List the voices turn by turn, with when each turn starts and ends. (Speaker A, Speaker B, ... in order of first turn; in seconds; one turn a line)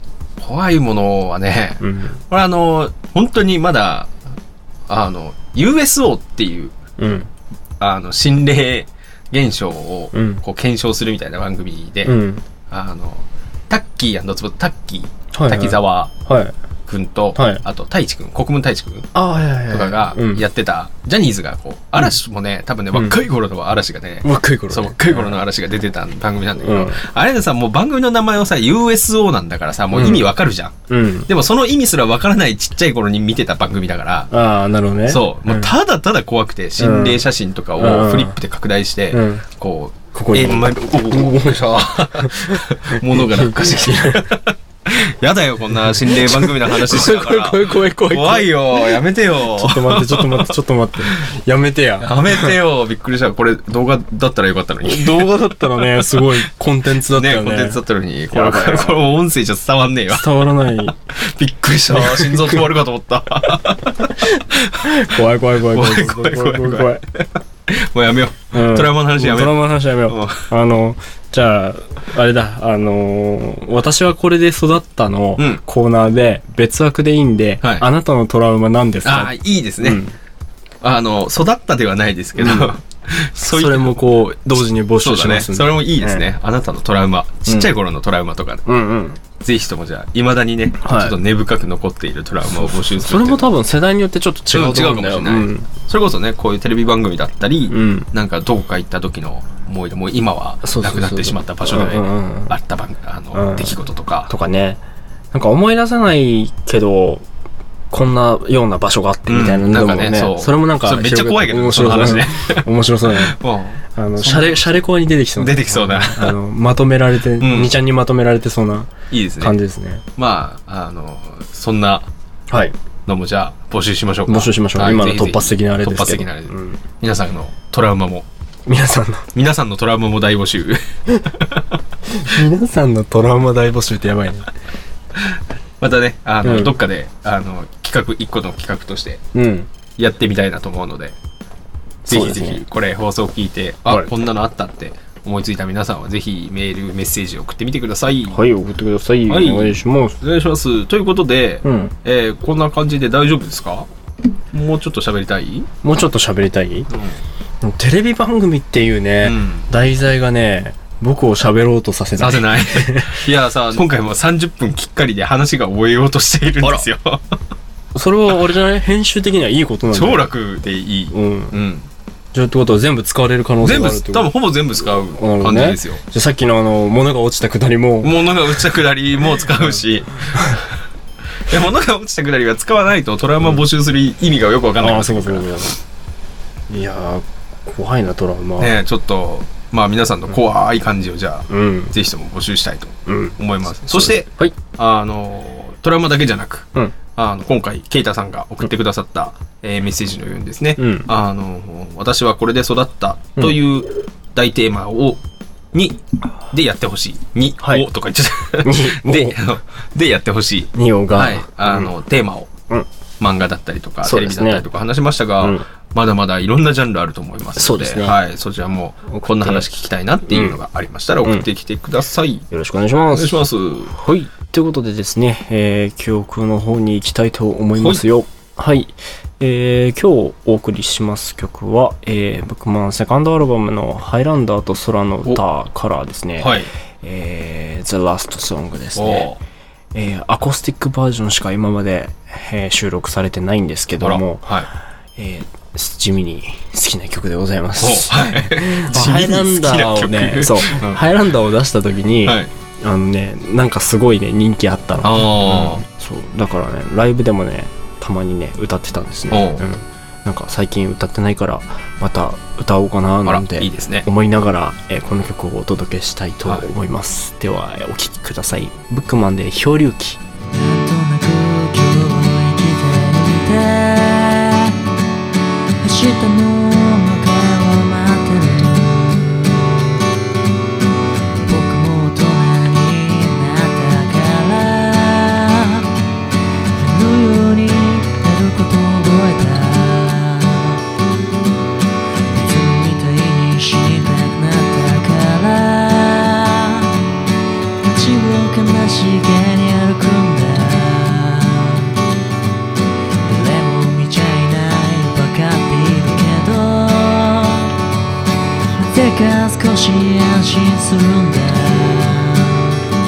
Speaker A: 0.4-4.1
Speaker B: 1.8-2.2
Speaker A: 4.9-6.8
Speaker B: 7.0-7.3
Speaker A: 7.8-12.2
Speaker B: 10.1-10.4
Speaker B: 12.1-12.4
Speaker A: 12.7-16.1
Speaker B: 15.3-16.5
Speaker A: 16.9-19.1
Speaker B: 17.4-17.6
Speaker B: 19.1-20.4
Speaker A: 19.7-30.8
Speaker B: 22.9-23.2
Speaker B: 24.2-25.4
Speaker B: 26.6-27.0
Speaker B: 29.9-30.3
Speaker B: 30.9-31.3
Speaker A: 31.3-34.3
Speaker B: 34.3-35.7
Speaker A: 35.1-50.5
Speaker B: 36.8-37.2
Speaker B: 37.8-38.4
Speaker B: 39.1-39.5
Speaker B: 40.1-44.3
Speaker B: 45.8-52.6
Speaker A: 52.0-56.5
Speaker B: 54.8-57.8
Speaker A: 57.1-60.5
Speaker B: 58.3-59.0
Speaker B: 60.1-61.0
Speaker A: 61.1-65.1
Speaker B: 61.9-62.6
Speaker B: 64.2-67.0
Speaker A: 65.6-70.5
Speaker B: 68.5-80.2
Speaker A: 75.4-75.6
Speaker A: 77.6-77.9
Speaker A: 79.0-80.0
Speaker A: 80.8-84.4
Speaker B: 82.4-82.7
Speaker B: 83.4-86.3
Speaker A: 85.0-88.7
Speaker B: 87.5-87.7
Speaker B: 88.7-89.2
Speaker A: 89.4-93.5
Speaker B: 90.8-91.2
Speaker B: 92.5-95.7
Speaker A: 94.5-104.3
Speaker B: 97.7-98.1
Speaker B: 100.6-102.6
Speaker B: 103.3-107.2
Speaker B: 107.9-113.3
Speaker A: 109.3-114.8
Speaker B: 114.0-120.0
Speaker A: 115.4-116.4
Speaker A: 117.4-117.7
Speaker A: 119.1-119.6
Speaker A: 120.2-122.1
Speaker A: 123.1-128.3
Speaker B: 124.3-126.8
Speaker B: 128.7-129.3
Speaker A: 129.3-131.6
Speaker B: 132.1-134.5
Speaker A: 135.2-139.2
Speaker B: 136.4-136.7
Speaker B: 139.3-139.7
Speaker A: 140.0-141.2
Speaker A: 142.1-148.4
Speaker B: 142.1-142.6
Speaker B: 148.3-150.2
Speaker A: 149.3-153.9
Speaker B: 151.6-151.9
Speaker A: 154.5-155.7
Speaker B: 155.8-156.9
Speaker A: 156.9-157.2
Speaker B: 157.6-163.3
Speaker A: 159.2-159.7
Speaker A: 162.2-167.2
Speaker B: 167.9-170.3
Speaker A: 169.9-171.9
Speaker B: 171.1-171.6
Speaker B: 172.3-174.3
Speaker A: 173.6-176.0
Speaker B: 175.0-178.6
Speaker A: 178.0-180.8
Speaker B: 179.4-179.8
Speaker A: 181.4-185.8
Speaker B: 184.8-185.8
Speaker B: 186.7-188.8
Speaker A: 188.6-205.2
Speaker B: 191.5-191.9
Speaker B: 193.1-194.6
Speaker B: 200.8-201.1
Speaker A: 205.7-212.5
Speaker B: 207.6-207.9
Speaker B: 208.6-209.4
Speaker B: 210.7-211.9
Speaker A: 213.2-222.5
Speaker B: 214.0-214.7
Speaker B: 215.4-215.7
Speaker B: 217.6-218.2
Speaker B: 219.1-219.7
Speaker B: 220.3-220.6
Speaker B: 222.5-239.3
Speaker A: 223.1-224.0
Speaker A: 227.8-228.0
Speaker A: 236.4-236.7
Speaker A: 238.9-239.4
Speaker B: 239.9-244.6
Speaker A: 244.0-244.7
Speaker B: 245.2-270.2
Speaker A: 247.8-251.0
Speaker A: 252.2-252.5
Speaker A: 255.0-255.8
Speaker A: 259.3-259.7
Speaker A: 263.3-264.1
Speaker C: 270.5-274.8
Speaker C: 275.8-280.0
Speaker C: 281.5-285.9
Speaker C: 286.8-290.8
Speaker C: 292.3-296.9
Speaker C: 297.8-301.9
Speaker C: 303.2-307.7
Speaker C: 308.8-312.8